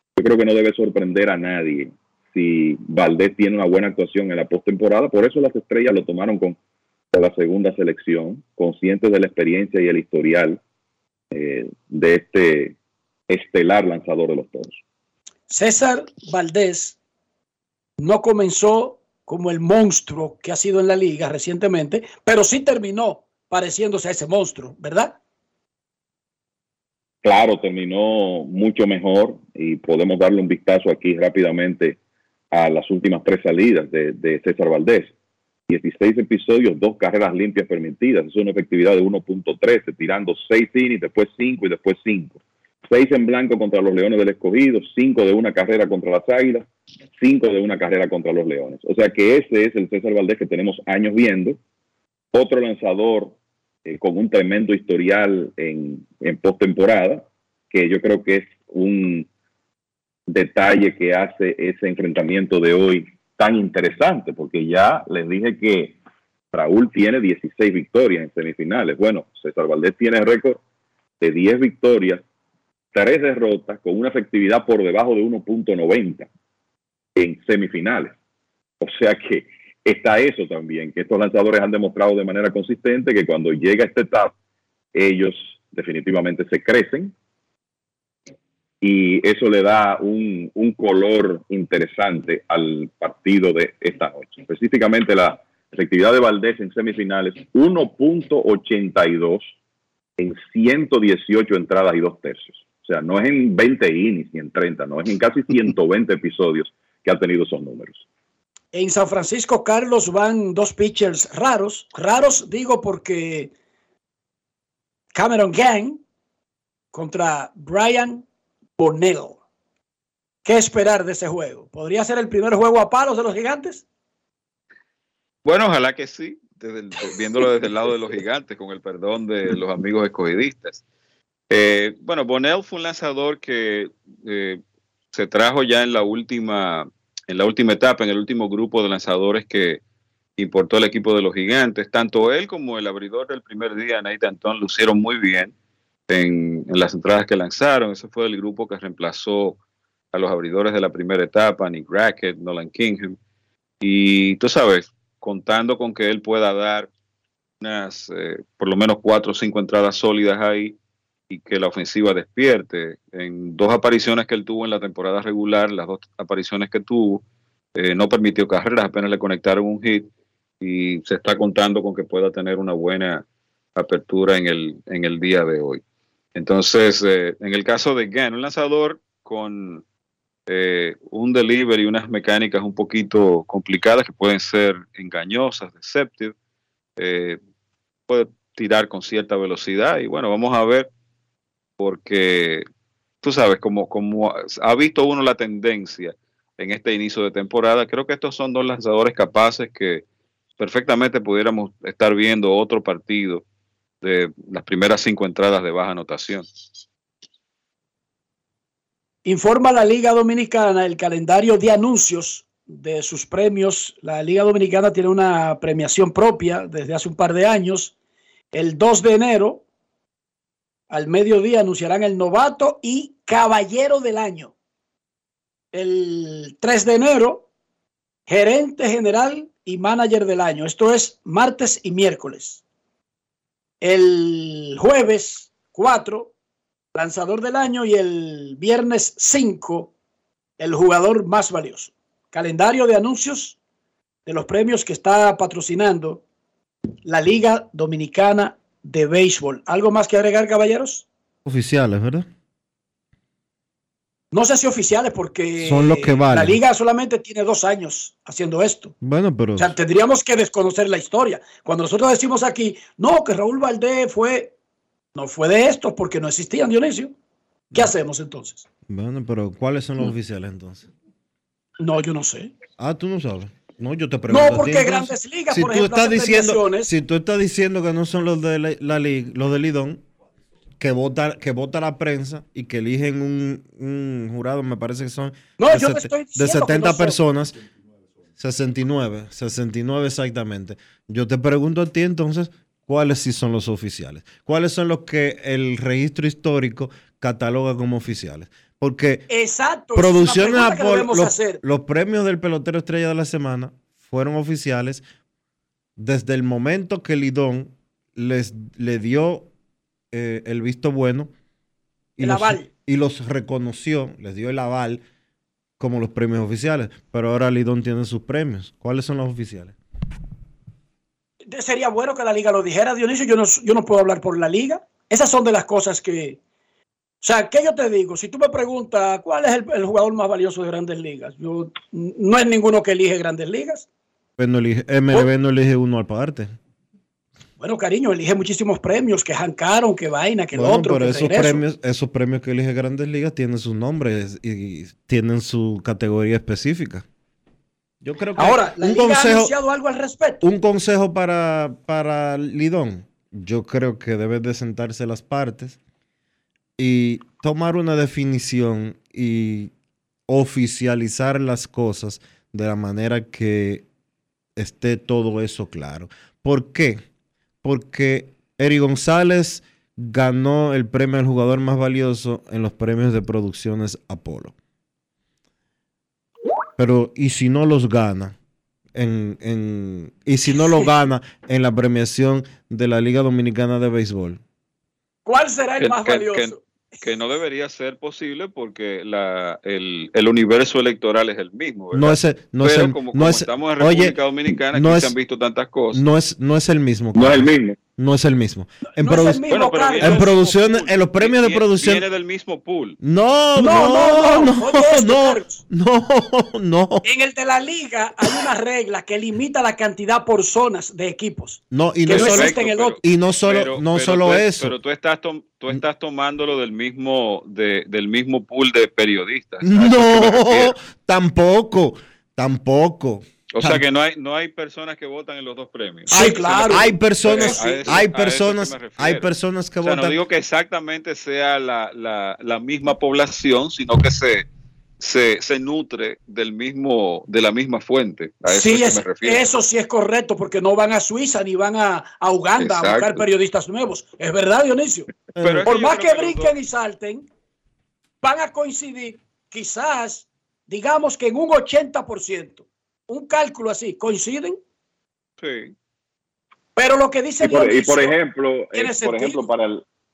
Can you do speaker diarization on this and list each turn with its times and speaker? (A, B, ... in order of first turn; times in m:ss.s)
0:00.2-0:06.6 A
0:07.1-0:10.6 A
0:11.3-0:12.7 A
0:13.3-0:14.8 A
0:15.5-0:17.0 B
0:18.0-0:25.2 B
0:27.2-0:32.0 A
0:32.5-0:35.1 A
0:35.7-0:46.7 A
0:47.2-0:51.6 A
0:52.3-0:53.3 A
0:53.8-0:59.3 A
1:00.3-1:06.0 A
1:06.5-1:10.6 A
1:11.2-1:12.2 A
1:12.9-1:16.3 A
1:17.2-1:18.1 A
1:18.8-1:24.3 A
1:24.9-1:27.1 A
1:28.8-1:39.5 A
1:40.2-1:48.0 A
1:48.7-1:53.5 B
1:55.1-1:56.0 B
1:56.9-1:58.2 B
1:58.8-1:59.4 B
2:00.4-2:03.8 B
2:05.4-2:10.8 C
2:11.5-2:14.6 C
2:15.1-2:19.8 C
2:20.4-2:25.5 C
2:26.1-2:29.6 C
2:30.1-2:33.2 C
2:33.8-2:36.9 C
2:37.6-2:40.8 C
2:41.3-2:47.2 C
2:47.7-2:50.1 C
2:50.6-2:53.2 C
2:53.8-2:55.8 C
2:56.3-2:59.8 C
3:00.5-3:06.3 C
3:07.0-3:07.4 C
3:08.1-3:10.9 C
3:11.8-3:12.6 C
3:13.2-3:20.0 C
3:20.6-3:23.4 C
3:24.0-3:26.4 C
3:29.2-3:37.9 B
3:38.5-3:39.6 B
3:40.9-3:44.5 B
3:45.7-3:47.4 B
3:48.3-3:52.6 B
3:53.8-3:56.3 B
3:56.9-3:59.9 B
4:00.6-4:03.6 B
4:04.2-4:06.2 B
4:07.0-4:11.0 B
4:11.4-4:12.3 D
4:14.3-4:18.9 B
4:15.6-4:16.6 D
4:19.0-4:19.7 D
4:19.6-4:24.5 B
4:25.1-4:27.1 B
4:27.7-4:28.6 B
4:28.9-4:30.9 D
4:31.8-4:32.5 B
4:32.8-4:40.0 D
4:34.3-4:36.9 B
4:40.8-4:47.6 D
4:45.6-4:47.2 B
4:48.4-4:59.3 D
4:59.3-5:01.6 B
4:59.9-5:05.0 D
5:06.0-5:09.5 D
5:10.1-5:11.3 D
5:12.2-5:15.0 D
5:12.2-5:12.7 B
5:15.8-5:19.7 D
5:21.5-5:26.4 B
5:27.2-5:33.8 B
5:34.4-5:36.6 D
5:37.6-5:41.6 B
5:40.5-5:47.0 D
5:48.0-5:49.5 D
5:48.4-5:50.4 B
5:50.4-5:55.8 D
5:56.8-5:59.7 D
6:00.3-6:03.8 D
6:04.6-6:07.0 D
6:07.6-6:14.5 D
6:16.8-6:18.3 D
6:18.9-6:24.4 D
6:25.2-6:27.1 B
6:25.8-6:36.0 C
6:31.9-6:35.1 D
6:35.9-6:39.5 D
6:37.1-6:37.8 A
6:39.0-6:40.4 B
6:39.5-6:43.0 C
6:40.0-6:42.0 D
6:43.0-6:47.0 D
6:43.6-6:45.6 B
6:47.0-6:53.0 B
6:51.7-6:54.7 D
6:52.1-7:00.7 C
6:59.6-7:03.8 D
7:03.5-7:09.3 C
7:06.1-7:08.0 B
7:06.1-7:10.2 D
7:09.8-7:14.5 C
7:15.0-7:19.5 C
7:18.4-7:25.1 B
7:22.6-7:23.2 C
7:25.4-7:25.7 D
7:25.4-7:26.5 C
7:25.6-7:27.2 B
7:28.2-7:34.6 B
7:35.4-7:35.7 C
7:36.8-7:38.2 B
7:37.4-7:39.8 A
7:38.7-7:39.5 B